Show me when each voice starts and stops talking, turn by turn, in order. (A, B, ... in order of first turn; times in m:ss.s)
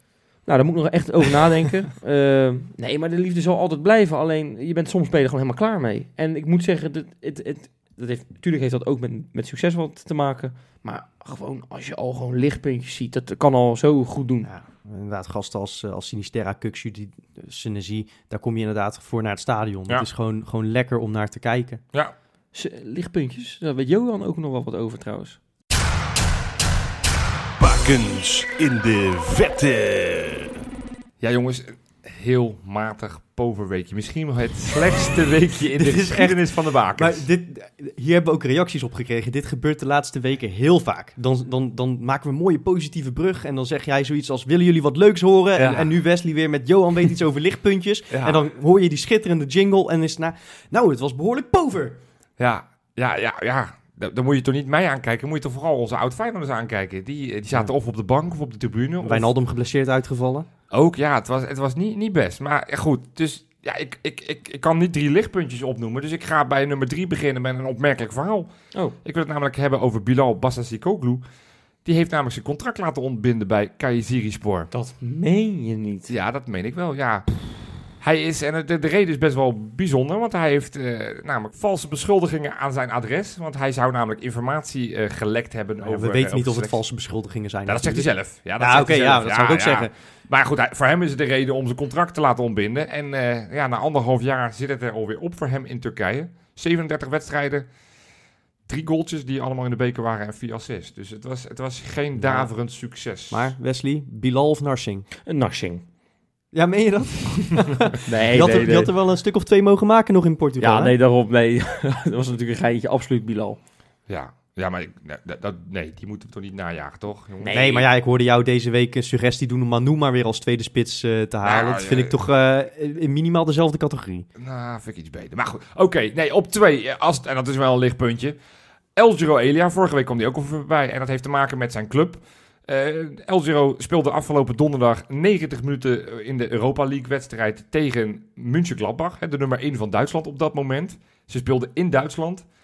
0:00.4-0:14.5 A
0:14.4-0:21.8 B
0:22.5-0:25.4 A
0:27.6-0:30.5 C
0:31.2-0:37.2 D
0:35.8-0:52.0 B
0:45.6-0:45.9 D
0:48.1-0:48.4 D
0:52.4-0:59.3 D
0:59.0-1:00.5 B
1:00.7-1:11.2 D
1:11.8-1:14.7 D
1:14.7-1:16.1 A
1:16.1-1:26.8 D
1:25.8-1:29.9 B
1:27.6-1:37.7 D
1:38.7-1:43.5 D
1:42.2-1:42.5 B
1:43.3-1:45.1 B
1:45.2-1:45.8 A
1:46.5-1:50.9 B
1:48.0-1:48.9 A
1:50.6-1:53.6 A
1:54.1-1:57.9 D
1:57.4-1:57.8 A
1:57.5-2:04.3 B
2:01.4-2:02.1 D
2:04.4-2:08.4 D
2:08.9-2:22.5 D